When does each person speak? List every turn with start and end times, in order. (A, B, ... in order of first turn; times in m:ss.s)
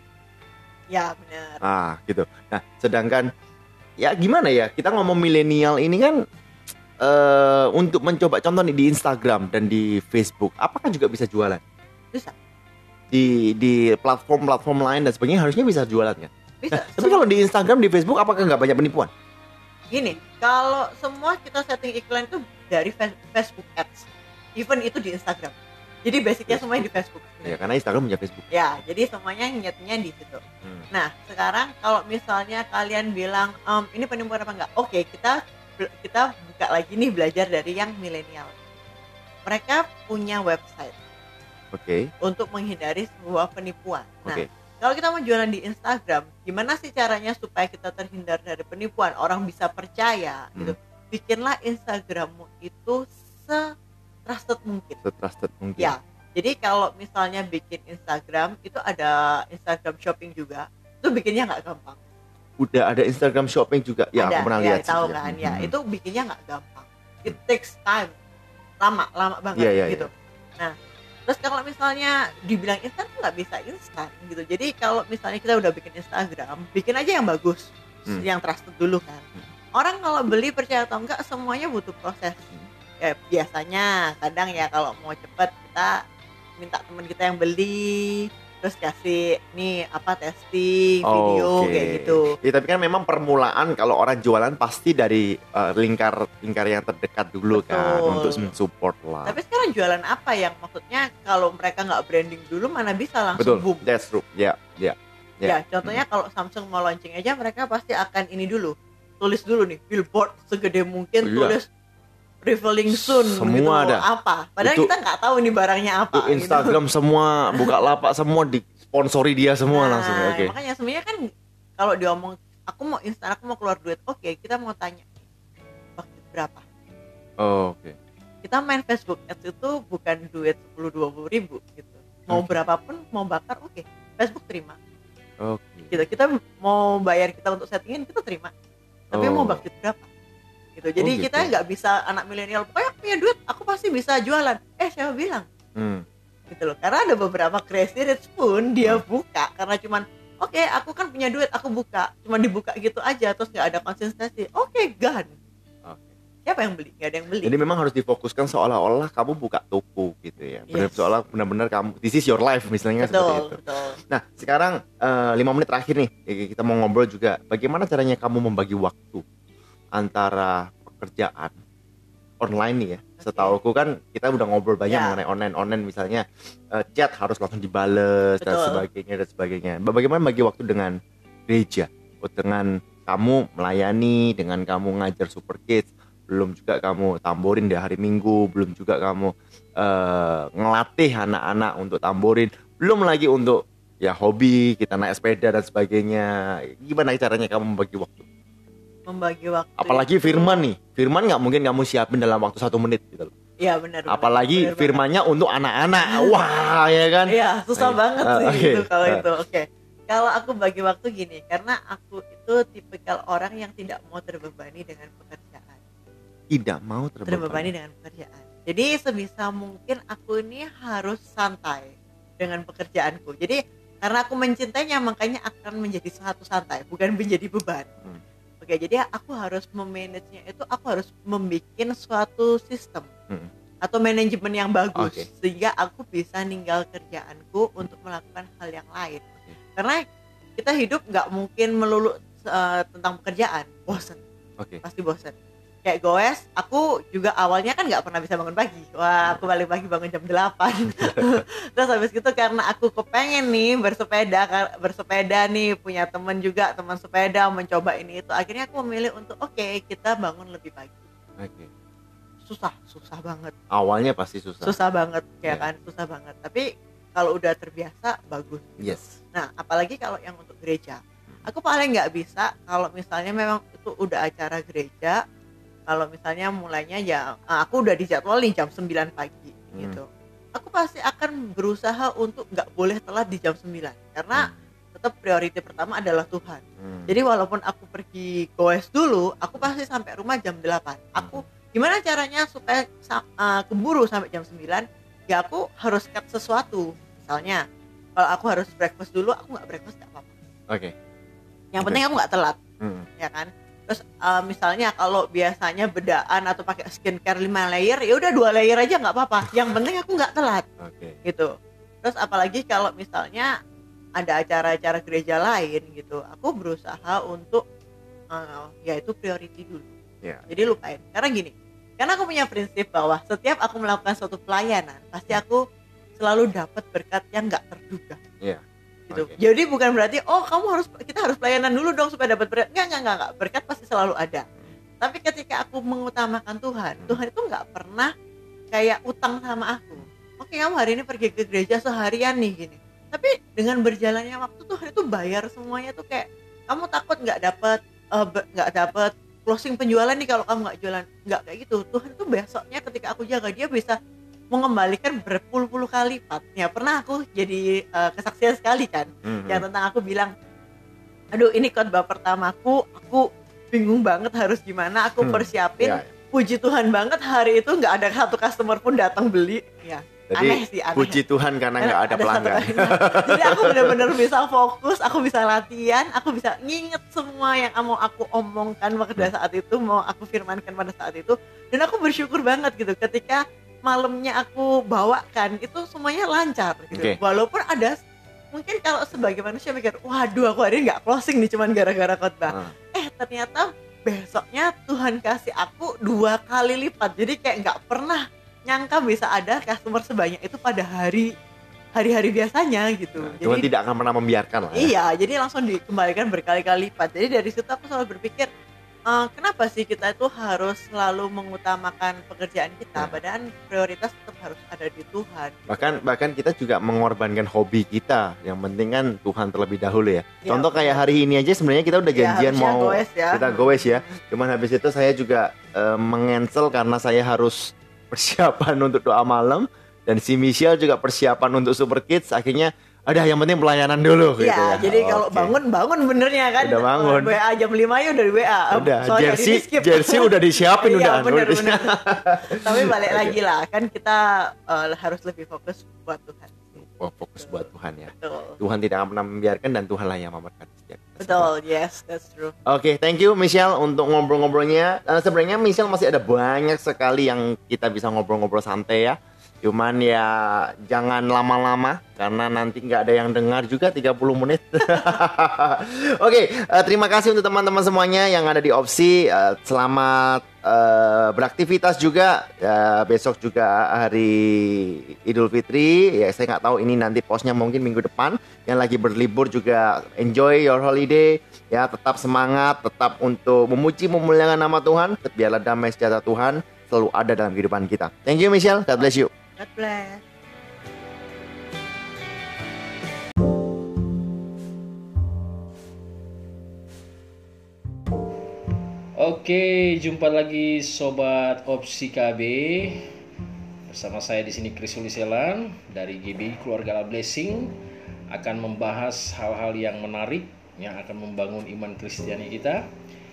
0:00.9-0:01.6 A
0:01.6-0:03.3 B
0:04.0-0:06.2 B
0:07.0-0:11.6 B
0:13.1-0:19.1 B
0:16.6-0:17.3 A
0:19.9-0:27.6 A
0:27.4-0:28.5 B
0:28.5-0:38.6 A
0:39.5-0:41.0 A
0:41.7-0:42.1 B
0:42.2-0:53.7 A
0:54.3-0:55.0 A
0:55.0-0:55.9 B
0:55.8-1:02.0 A
1:02.6-1:05.7 B
1:04.2-1:08.1 A
1:08.8-1:10.8 A
1:09.6-1:10.1 B
1:11.3-1:22.4 A
1:23.0-1:26.0 A
1:26.6-1:32.4 A
1:31.0-1:39.4 B
1:37.5-1:38.5 A
1:39.2-1:43.8 A
1:43.4-1:46.0 B
1:45.4-1:51.7 A
1:51.2-1:51.6 B
1:52.4-1:56.8 A
1:52.9-1:54.0 B
1:54.6-1:54.9 B
1:56.1-2:00.5 B
1:59.7-2:01.2 A
2:01.8-2:05.2 A
2:06.0-2:06.6 A
2:07.4-2:08.0 B
2:08.4-2:14.8 A
2:15.4-2:15.9 B
2:15.9-2:18.5 A
2:19.1-2:20.1 A
2:19.1-2:19.6 B
2:20.8-2:25.5 A
2:21.0-2:21.5 B
2:25.8-2:26.0 B
2:26.5-2:35.3 A
2:36.5-2:37.6 A
2:37.4-2:49.2 B
2:40.7-2:41.1 A
2:43.0-2:44.0 A
2:50.0-2:51.6 B
2:52.4-3:01.0 B
2:53.2-2:53.6 A
2:54.9-2:55.2 A
2:58.4-2:58.8 A
3:01.5-3:18.2 B
3:19.1-3:20.6 A
3:19.8-3:23.3 B
3:23.6-3:25.0 A
3:24.1-3:29.3 B
3:26.1-3:26.3 A
3:27.3-3:35.8 A
3:36.5-3:37.7 B
3:37.3-3:47.9 A
3:48.6-3:53.1 A
3:53.8-4:00.0 A
3:55.0-3:55.3 B
4:00.6-4:04.2 A
4:04.8-4:21.1 A
4:21.4-4:21.7 B
4:22.4-4:23.5 A
4:23.7-4:24.7 B
4:24.6-4:35.2 A
4:28.8-4:29.2 B
4:35.9-4:57.6 A
4:39.7-4:40.0 B
4:46.8-4:47.1 B
4:58.2-5:00.3 A
5:00.7-5:00.9 B
5:01.7-5:02.6 A
5:02.8-5:03.1 B
5:03.2-5:10.7 A
5:10.8-5:11.2 B
5:11.2-5:11.5 A
5:12.0-5:13.5 A
5:14.2-5:17.6 A
5:18.3-5:19.9 A
5:20.5-5:25.6 A
5:26.2-5:28.2 A
5:28.4-5:29.4 B
5:29.1-5:34.5 A
5:35.0-5:38.1 A
5:38.7-5:54.0 A
5:54.5-6:00.3 A
5:59.2-5:59.6 B
6:01.3-6:11.2 A
6:05.2-6:06.1 B
6:10.3-6:14.1 B
6:11.8-6:28.0 A
6:26.9-6:27.2 B
6:28.5-6:41.3 A
6:42.0-6:43.7 A
6:43.2-6:44.9 B
6:44.7-6:48.5 A
6:49.1-6:56.0 A
6:55.7-7:15.6 B
7:00.4-7:01.0 A
7:02.1-7:04.2 A
7:14.4-7:26.8 A
7:16.6-7:17.4 B
7:18.7-7:23.4 B
7:26.8-7:31.5 B
7:27.4-7:28.6 A
7:31.2-7:32.6 A
7:32.7-8:09.3 B
8:09.0-8:10.2 A
8:19.2-8:23.2 C
8:23.9-8:27.7 C
8:28.3-8:32.8 C